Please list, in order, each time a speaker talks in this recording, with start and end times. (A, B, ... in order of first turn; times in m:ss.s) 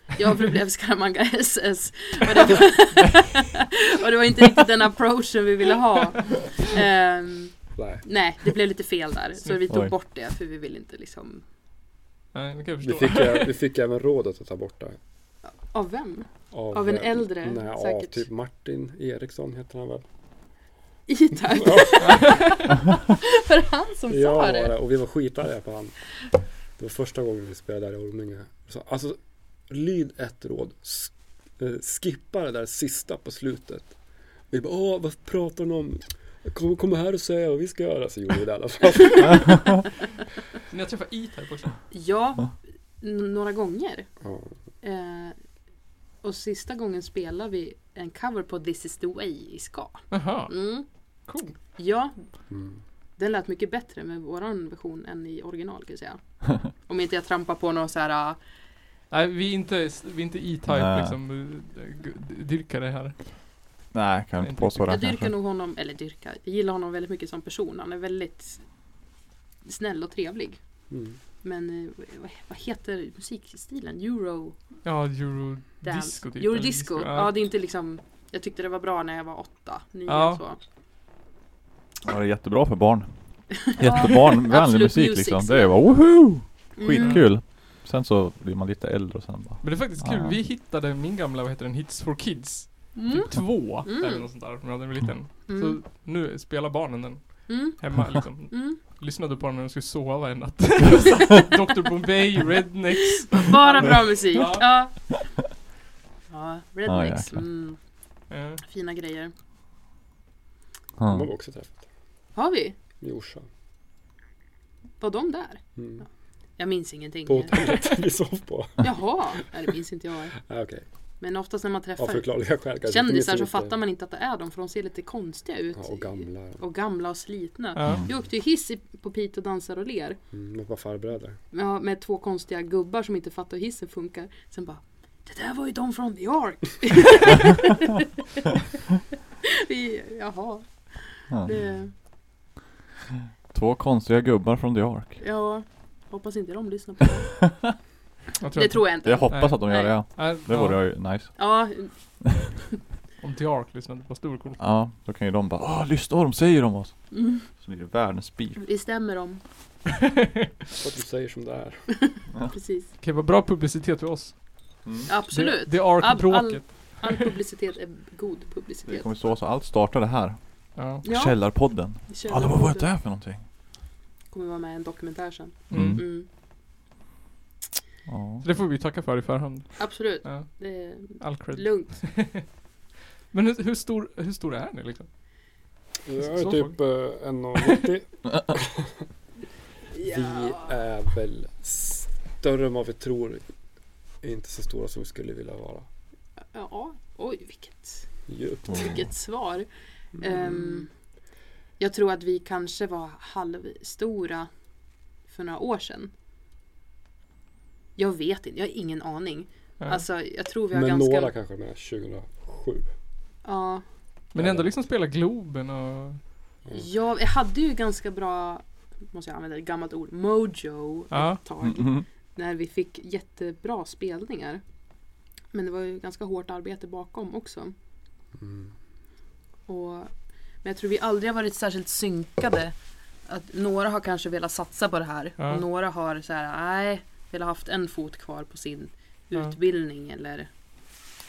0:00.2-0:11.4 A
0:07.8-0:08.0 B
0:12.3-0:13.5 C
0:12.8-0:15.0 B
0:15.6-0:18.3 A
0:16.5-0:20.0 B
0:21.1-0:24.8 A
0:21.5-0:22.3 B
0:22.0-0:22.6 C
0:24.1-0:26.0 B
0:26.8-0:33.9 B
0:34.5-0:39.6 B
0:40.7-0:41.8 C
0:41.9-0:44.1 A
0:44.2-0:44.5 B
0:44.8-0:45.4 A
0:46.2-0:50.9 A
0:50.1-0:51.6 C
0:51.8-0:52.3 A
0:52.5-0:52.8 B
0:53.2-0:58.4 A
0:59.1-1:03.4 C
1:00.7-1:01.2 D
1:03.9-1:05.3 D
1:04.4-1:04.9 C
1:04.8-1:08.7 A
1:09.6-1:10.6 A
1:10.9-1:11.2 B
1:11.4-1:14.6 A
1:14.8-1:17.3 C
1:15.8-1:20.6 A
1:20.1-1:20.4 C
1:22.0-1:30.4 D
1:23.7-1:25.8 A
1:26.8-1:27.2 A
1:27.0-1:27.2 C
1:29.6-1:44.7 C
1:32.9-1:34.3 A
1:35.5-1:35.8 A
1:37.5-1:38.8 A
1:43.2-1:45.3 A
1:46.3-1:47.8 A
1:46.9-1:47.4 D
1:48.3-1:48.6 C
1:48.6-1:49.3 A
1:51.0-1:51.3 D
1:51.1-1:51.8 B
1:52.4-1:52.8 A
1:53.0-1:53.5 B
1:55.0-1:55.6 A
1:55.8-1:56.0 B
1:56.6-1:57.7 A
1:57.3-1:59.4 B
1:58.8-2:00.4 A
2:00.4-2:00.8 B
2:01.2-2:02.3 A
2:02.0-2:03.8 B
2:02.8-2:10.2 A
2:05.8-2:06.6 B
2:07.8-2:08.0 C
2:10.3-2:11.4 B
2:11.5-2:17.9 A
2:19.4-2:21.9 A
2:23.5-2:25.2 D
2:25.2-2:27.4 A
2:28.4-2:30.8 C
2:28.6-2:30.0 A
2:29.0-2:32.0 D
2:31.4-2:32.4 A
2:33.2-2:34.6 C
2:34.6-2:38.6 D
2:37.1-2:37.4 A
2:38.6-2:39.4 A
2:40.8-2:41.9 B
2:42.0-2:42.9 A
2:43.0-2:47.2 C
2:44.8-2:45.1 D
2:45.1-2:49.1 A
2:48.9-2:53.4 D
2:50.8-2:51.0 C
2:51.0-2:52.9 A
2:54.3-2:56.3 A
2:55.7-2:56.0 C
2:55.7-2:56.0 D
2:58.1-2:58.4 D
2:58.4-3:02.4 C
2:59.8-3:02.0 A
3:03.3-3:05.1 C
3:06.0-3:09.0 B
3:06.2-3:06.8 C
3:09.9-3:10.7 A
3:10.0-3:13.5 B
3:14.2-3:15.9 B
3:16.5-3:18.1 A
3:18.3-3:19.1 B
3:18.7-3:19.7 A
3:20.2-3:20.8 B
3:20.2-3:20.9 A
3:21.8-3:24.5 A
3:25.3-3:26.1 A
3:28.0-3:31.3 A
3:30.7-3:32.9 B
3:33.4-3:33.8 A
3:34.3-3:36.2 C
3:34.4-3:34.7 B
3:36.7-3:44.6 A
3:41.1-3:41.4 C
3:41.6-3:42.0 D
3:45.5-3:47.8 A
3:48.4-3:48.7 B
3:49.7-3:52.8 A
3:53.3-4:00.5 A